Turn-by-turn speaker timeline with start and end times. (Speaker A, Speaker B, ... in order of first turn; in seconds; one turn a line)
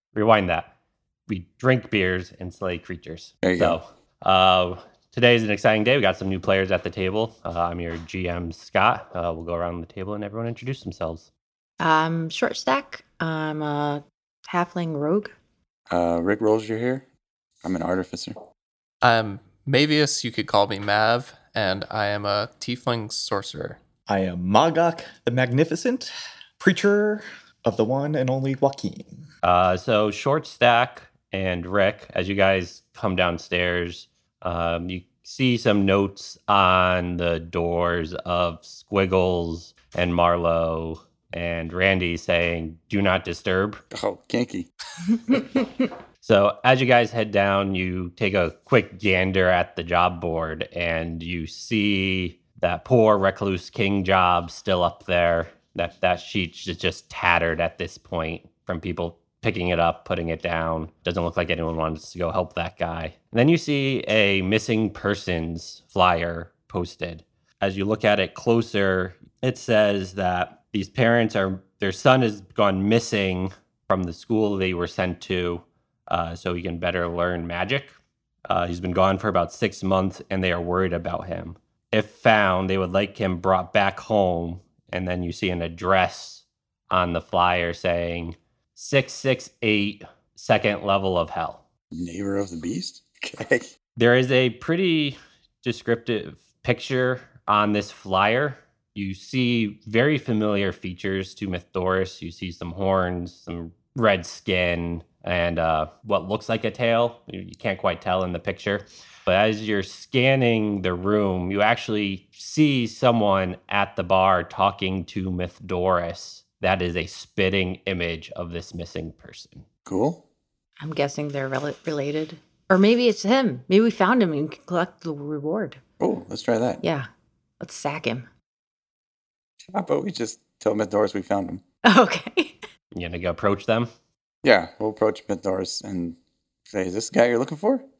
Speaker A: 0.1-0.7
Speaker A: 1.3-11.3
Speaker B: 3.4-3.8
Speaker C: 11.8-15.3
Speaker B: 15.9-17.0
Speaker B: 17.6-18.4
Speaker D: 19.0-23.8
Speaker E: 24.1-29.2
Speaker A: 29.4-43.8
Speaker B: 43.9-44.7
Speaker A: 46.2-77.9
Speaker A: 78.5-91.6
Speaker B: 91.9-93.7
Speaker A: 94.0-119.7
Speaker B: 119.8-120.2
Speaker C: 120.8-125.8
Speaker B: 126.0-126.8
Speaker C: 126.8-127.1
Speaker C: 127.6-128.3
Speaker B: 129.7-131.6
Speaker C: 131.8-132.6
Speaker A: 132.9-133.9
Speaker B: 134.4-136.2
Speaker B: 136.7-137.8